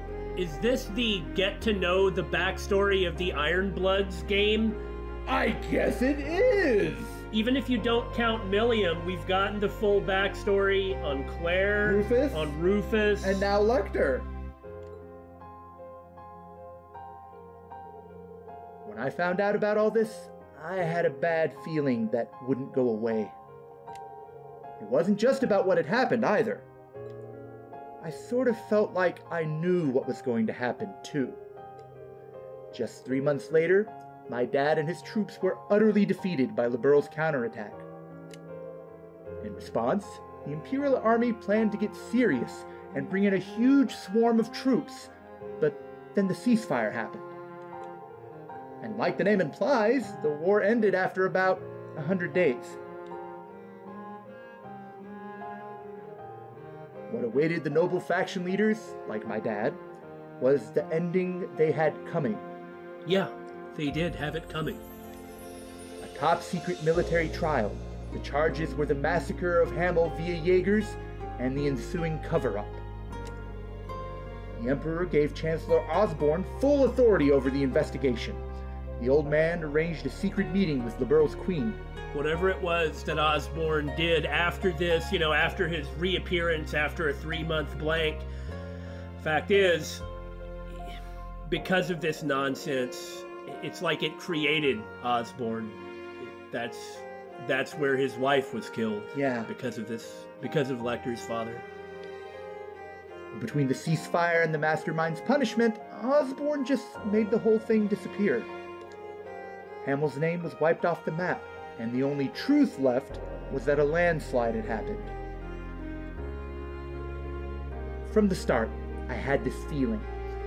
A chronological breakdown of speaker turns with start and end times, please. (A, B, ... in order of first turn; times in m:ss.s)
0:00.4-0:04.8 A
0:05.2-0:07.2 B
0:07.3-0:13.5 A
0:11.8-0:12.6 B
0:13.2-0:14.3 B
0:18.8-0:23.4 B
0:24.8-0:26.7 B
0:28.0-0:31.4 B
0:32.7-0:37.8 B
0:39.4-0:47.3 B
0:48.8-0:52.8 B
0:57.1-0:59.8 B
1:00.4-1:02.5 B
1:03.0-1:04.8 A
1:06.0-1:12.8 B
1:14.6-1:18.4 B
1:19.0-1:21.8 B
1:22.1-1:28.3 A
1:29.2-1:30.0 A
1:31.4-1:41.6 A
1:39.1-1:39.5 B
1:43.3-1:48.5 B
1:49.8-1:55.1 B
1:58.0-2:00.1 B